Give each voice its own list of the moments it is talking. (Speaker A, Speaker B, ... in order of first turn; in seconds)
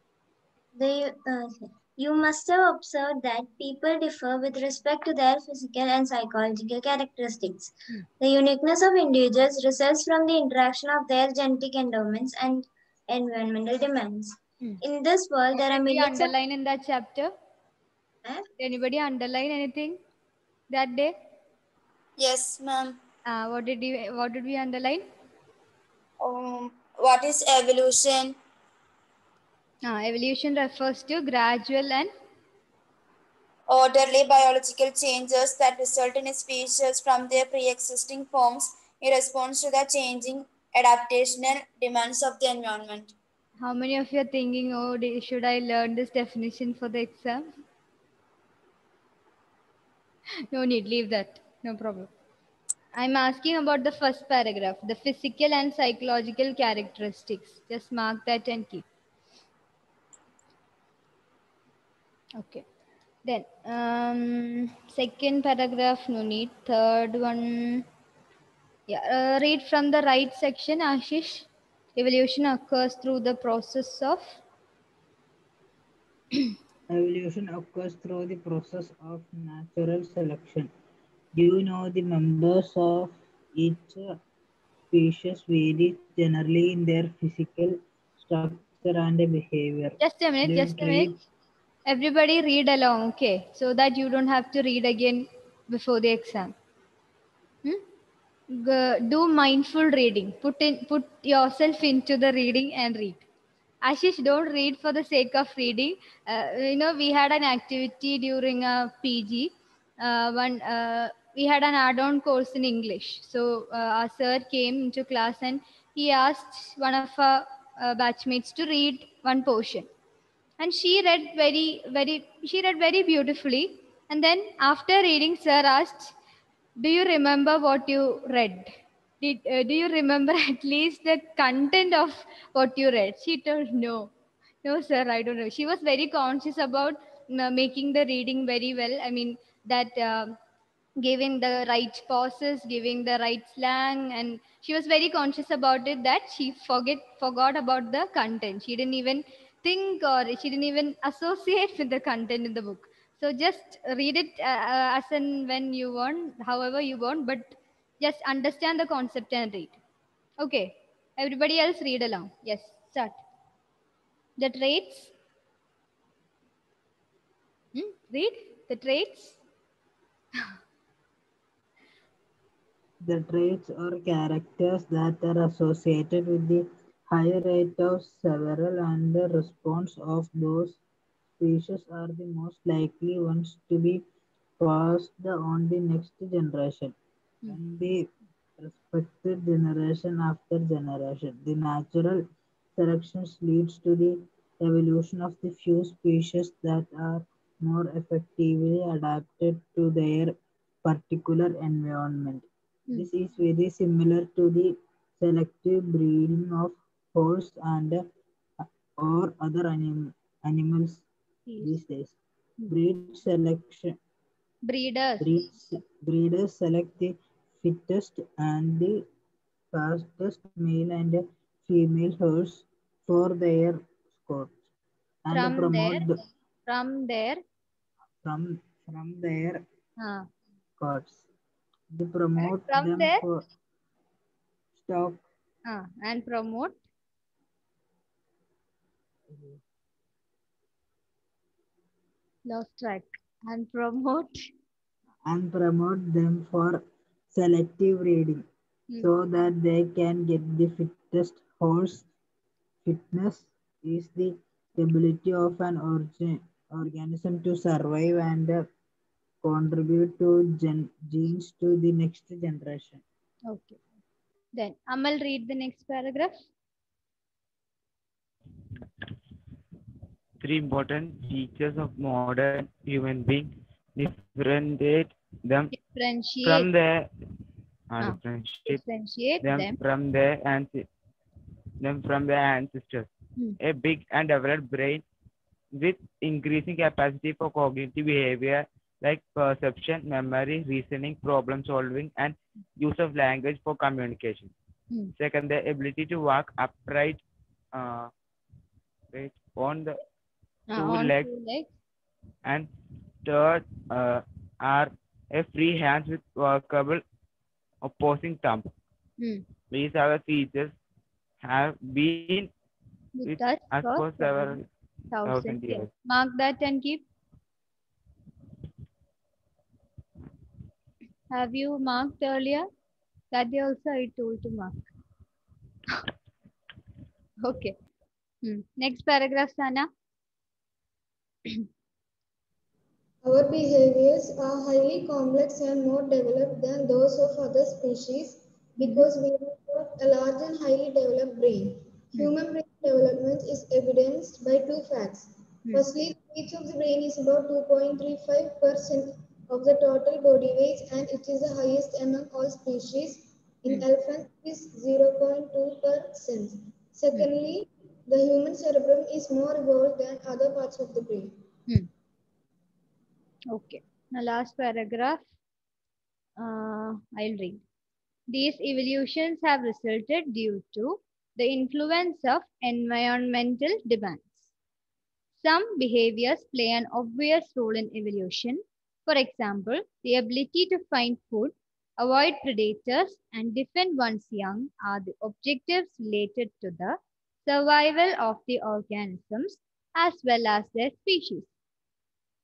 Speaker A: 0.8-16.3
Speaker B: 15.6-17.3, 18.6-20.0, 20.7-21.1, 23.3-25.1, 29.8-32.1, 43.6-47.5, 50.5-52.1, 52.9-58.8, 62.4-62.6, 63.2-67.9, 68.9-74.4, 90.0-91.1, 91.9-96.5, 98.5-103.2, 103.8-119.9, 120.6-126.1, 126.8-134.1, 134.6-140.4, 141.0-159.8, 160.4-163.2, 164.4-165.1, 167.7-169.4, 211.5-211.8, 214.7-215.3, 225.3-226.1, 226.7-227.4, 230.0-230.3, 232.4-233.2, 235.7-236.8, 242.5-244.4, 263.5-263.8, 264.5-266.4, 275.7-276.7, 278.0-279.8, 300.7-301.7, 313.2-317.0, 321.3-322.7, 323.3-324.8, 327.4-327.8, 328.4-329.9, 338.8-339.1, 363.5-365.2, 366.4-367.6, 368.3-374.5, 375.4-391.5
Speaker C: 22.2-23.0, 26.2-28.4, 33.7-43.1
Speaker D: 76.9-80.7, 81.3-84.2, 84.9-91.2, 173.0-180.8, 181.4-184.1, 184.6-192.2, 192.8-208.1, 208.6-211.1, 211.6-212.2, 212.7-214.0, 215.2-219.1, 219.7-224.6, 225.2-226.2, 228.2-229.6, 230.8-231.2, 231.9-233.4, 234.8-235.2, 239.3-239.6, 245.3-248.4, 249.0-252.1, 252.8-258.7, 259.4-263.0
Speaker E: 270.4-275.7, 276.4-277.1, 277.9-278.8, 279.4-280.9, 281.8-283.1, 283.6-285.1, 285.8-294.5, 295.2-297.2, 297.7-298.1, 299.1-300.0, 300.8-301.3, 302.4-302.7, 303.2-307.0, 307.8-308.7, 309.7-310.8, 311.4-312.5, 313.3-314.7, 315.2-315.9
Speaker F: 333.2-361.4